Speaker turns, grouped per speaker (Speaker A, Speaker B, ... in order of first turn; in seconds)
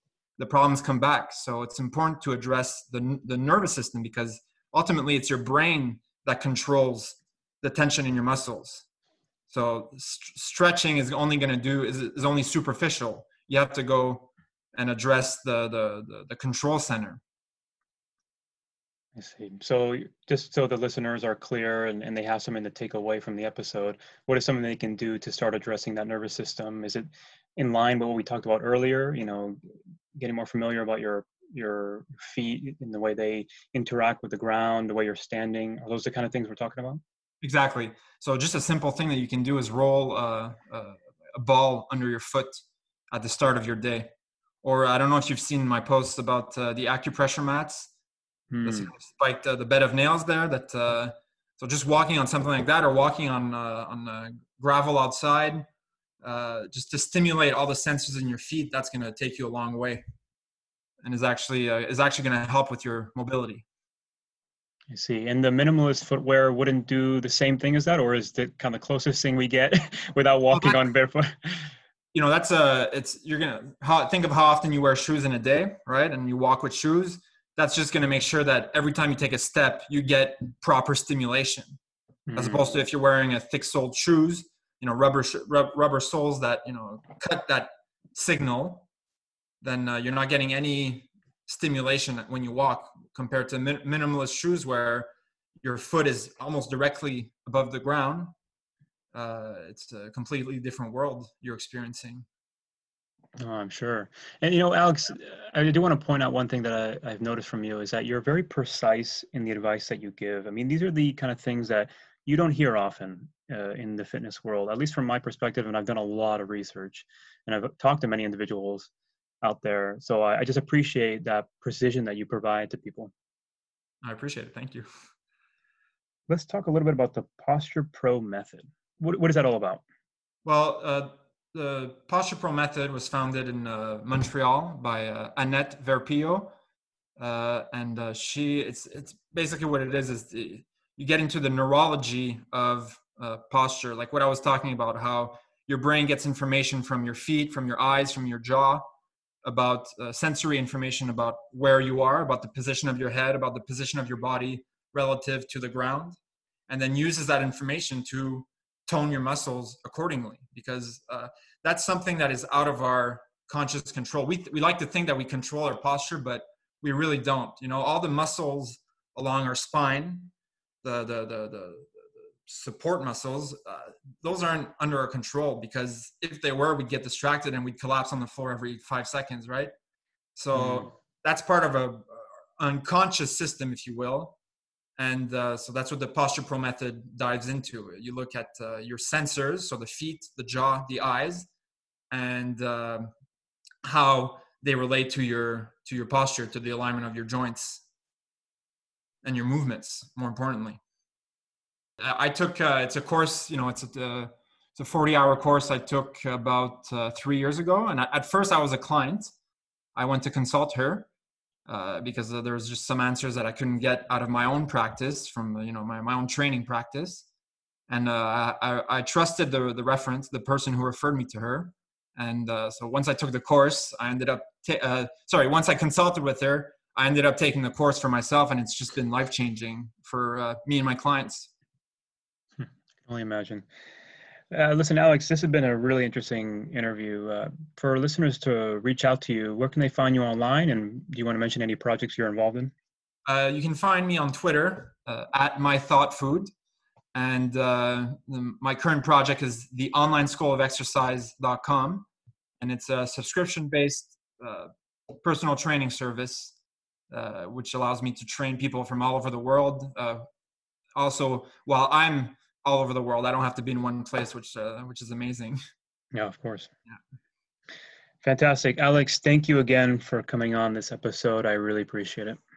Speaker A: 0.4-8.8, 9.5-17.2, 37.4-42.6, 43.1-44.1, 44.6-47.9, 48.6-55.6, 56.2-60.0, 61.0-63.6, 70.5-70.8, 72.1-81.8, 82.3-88.9, 89.6-95.1, 95.6-98.3, 99.1-102.3, 124.0-124.9, 130.4-136.5, 137.2-148.8, 149.4-171.9, 172.5-179.7, 180.4-184.4, 185.0-191.5, 192.1-193.1, 193.8-197.8, 199.2-200.8, 202.0-209.3, 209.9-211.1, 211.7-217.3, 217.9-231.5, 243.3-246.5, 247.1-252.1, 252.6-254.7, 255.2-256.6, 257.1-260.2, 261.0-265.6
Speaker B: 19.2-29.6, 30.2-37.0, 48.5-48.9, 64.9-71.7, 82.3-82.7, 103.4-118.9, 119.4-123.1, 126.3-129.8, 180.5-180.9, 232.6-233.7, 234.5-242.7, 266.1-266.7, 268.2-272.4